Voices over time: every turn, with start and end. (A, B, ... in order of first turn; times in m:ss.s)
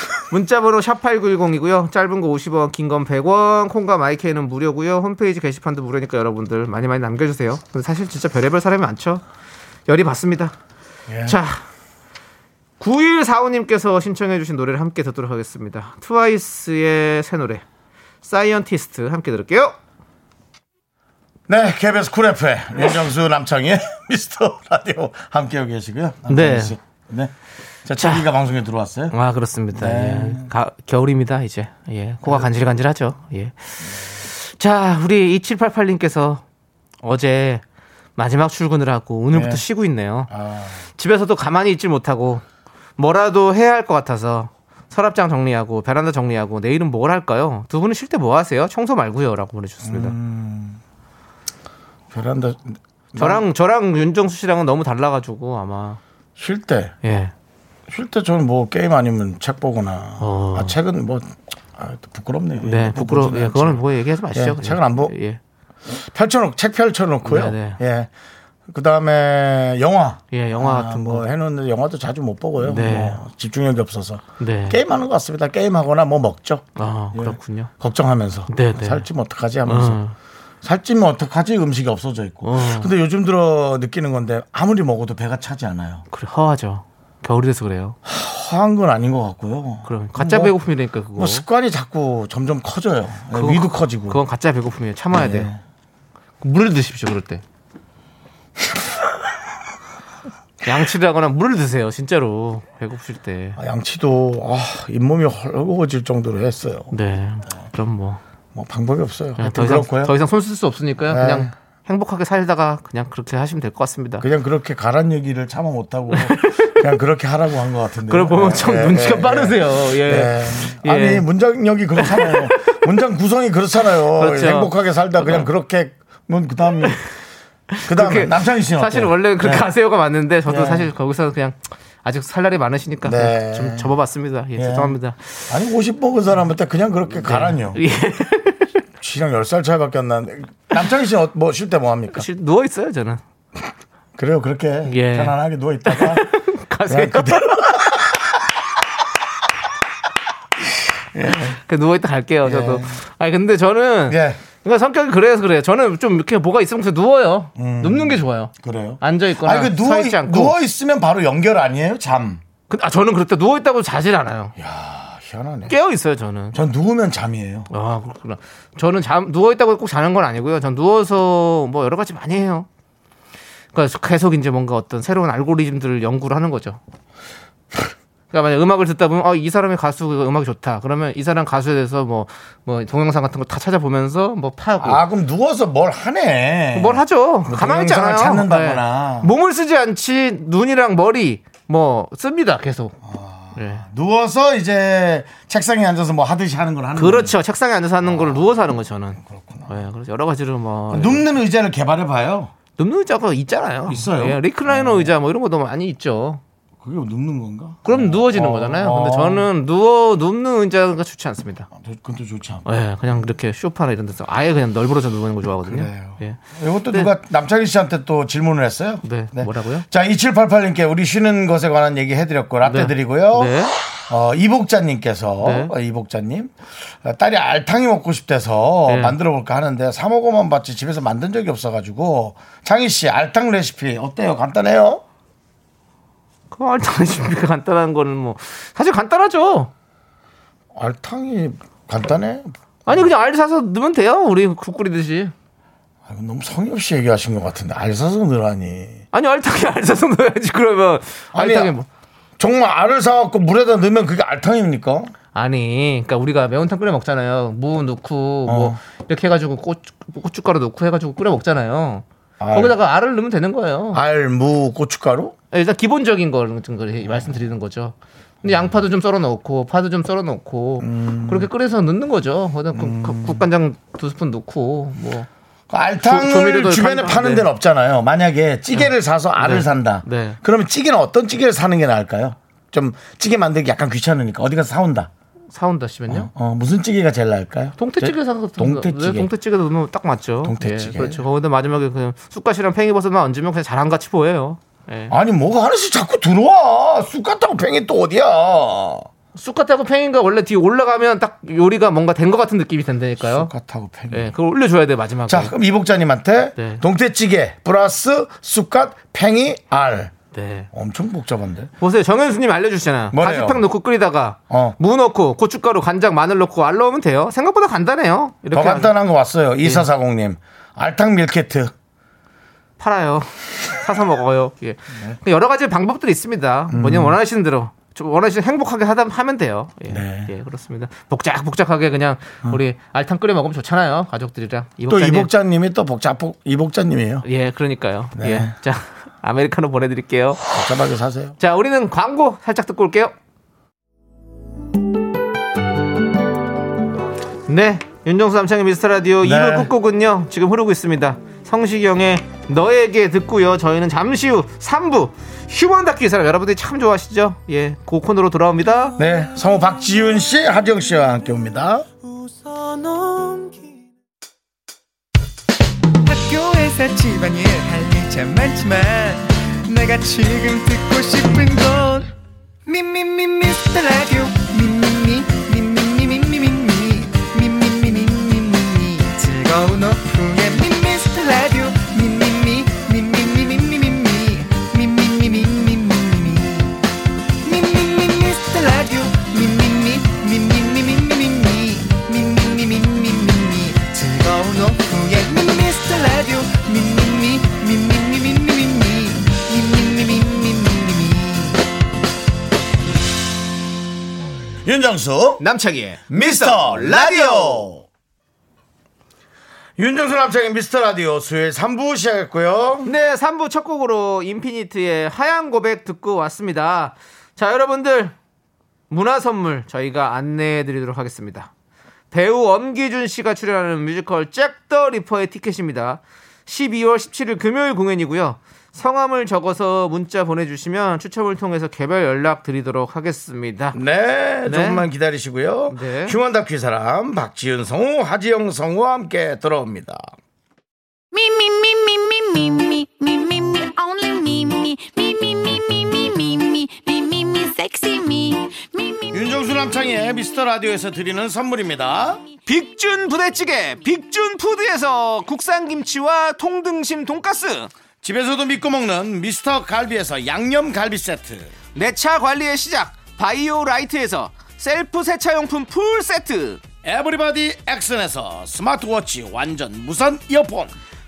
0:00.3-0:09.2 A
0:09.9-0:10.6 A
0:11.1-0:11.4 B
0:11.2-0:11.6 A
0:12.8-0:17.6 A
0:18.2-0:19.8 A
0:21.5-0:27.3 B
0:26.3-0:26.8 A
0:27.8-0:29.2 B
0:28.0-0:28.3 A
0:29.1-0:36.4 A
0:29.7-0:30.5 B
0:32.2-0:32.5 B
0:37.0-0:37.6 A
0:38.2-0:40.3 A
0:39.3-0:39.6 B
0:40.3-0:40.9 B
0:41.0-0:42.4 A
0:43.0-0:50.2 A
0:49.8-0:50.8 B
0:52.1-0:53.4 B
0:53.2-0:56.0 A
0:56.4-0:57.0 B
0:57.0-0:57.3 A
0:57.9-1:05.2 B
1:00.2-1:00.8 A
1:02.6-1:05.4 A
1:05.9-1:08.1 B
1:07.2-1:07.8 A
1:08.7-1:20.0 B
1:10.3-1:11.3 A
1:12.6-1:13.2 A
1:14.4-1:14.8 A
1:16.8-1:17.7 A
1:18.5-1:19.0 A
1:19.7-1:20.2 A
1:20.6-1:26.1 B
1:22.4-1:22.9 A
1:26.1-1:28.0 A
1:28.0-1:30.6 B
1:29.8-1:31.4 A
1:31.2-1:34.2 B
1:33.3-1:35.5 A
1:35.1-1:35.6 B
1:36.4-1:37.4 A
1:40.6-1:43.6 A
1:43.6-1:46.9 B
1:46.9-1:48.2 A
1:48.6-1:50.1 B
1:49.4-1:54.3 A
1:51.1-1:51.5 B
1:54.2-2:07.0 B
1:56.1-1:56.8 A
1:58.1-2:01.3 A
2:02.0-2:02.7 A
2:04.2-2:05.5 A
2:07.7-2:15.5 A
2:07.9-2:09.7 B
2:10.5-2:10.9 B
2:13.0-2:13.9 B
2:14.6-2:15.0 B
2:15.5-2:17.8 B
2:17.2-2:18.7 A
2:19.0-2:22.3 B
2:22.1-2:23.2 A
2:24.2-2:26.4 B
2:24.9-2:27.9 A
2:26.9-2:28.4 B
2:31.1-2:31.6 B
2:31.3-2:40.6 A
2:32.4-2:33.0 B
2:34.1-2:34.4 B
2:37.6-2:42.4 B
2:42.7-2:44.6 A
2:44.6-2:45.8 B
2:45.7-2:46.6 A
2:46.5-2:47.7 B
2:47.7-2:52.7 A
2:53.7-2:56.8 A
2:58.3-3:05.0 A
3:04.8-3:09.3 B
3:06.8-3:13.0 A
3:13.0-3:17.4 B
3:13.6-3:13.8 A
3:17.0-3:21.3 A
3:18.0-3:18.5 B
3:19.2-3:19.8 B
3:20.9-3:22.5 B
3:22.8-3:26.4 A
3:23.9-3:25.1 B
3:26.8-3:29.5 B
3:27.8-3:31.7 A
3:31.7-3:32.6 B
3:32.6-3:36.4 A
3:35.7-3:55.0 B
3:39.0-3:39.8 A
3:42.6-3:43.8 A
3:45.4-3:45.7 A
3:48.9-3:49.2 A
3:56.5-3:59.7 A
4:00.7-4:03.1 B
4:02.9-4:05.3 A
4:06.1-4:09.0 B
4:09.1-4:11.9 A
4:11.3-4:11.7 B
4:12.4-4:15.1 B
4:15.3-4:24.0 A
4:18.5-4:18.8 B
4:22.4-4:22.8 B
4:23.9-4:25.4 B
4:25.5-4:35.3 A
4:30.8-4:31.5 B
4:32.7-4:33.4 B
4:35.7-4:45.1 B
4:36.0-4:37.5 A
4:38.7-4:40.4 A
4:45.5-4:46.3 A
4:46.1-4:49.3 B
4:47.8-4:55.1 A
4:50.4-4:51.2 B
4:55.1-4:59.1 B
4:59.4-5:03.5 A
5:03.2-5:04.3 B
5:04.1-5:05.5 A
5:05.3-5:10.1 B
5:06.6-5:06.8 A
5:10.3-5:10.7 A
5:10.7-5:11.7 B
5:11.8-5:18.9 A
5:13.1-5:13.6 B
5:14.5-5:14.8 B
5:18.5-5:21.7 B
5:19.6-5:19.9 A
5:22.8-5:35.3 A
5:26.7-5:27.2 B
5:29.9-5:30.3 B
5:34.9-5:37.3 B
5:37.2-5:40.5 A
5:38.2-5:38.5 B
5:40.5-5:41.4 B
5:41.4-5:43.1 A
5:47.5-5:59.0 A
5:49.2-5:49.7 B
5:59.0-6:01.9 B
6:03.0-6:03.5 C
6:06.0-6:12.1 C
6:12.7-6:26.8 C
6:27.4-6:41.6 C
6:44.6-6:45.4 B
6:45.4-6:47.7 A
6:46.1-6:47.8 B
6:49.8-6:52.9 B
6:52.8-6:58.1 A
6:58.9-7:01.5 A
7:02.1-7:13.8 A
7:13.7-7:20.1 B
7:14.5-7:14.9 A
7:15.7-7:16.2 A
7:21.1-7:29.4 D
7:29.1-7:32.2 B
7:32.5-7:37.7 A
7:38.0-7:41.5 B
7:41.8-7:46.6 A
7:46.8-7:50.8 B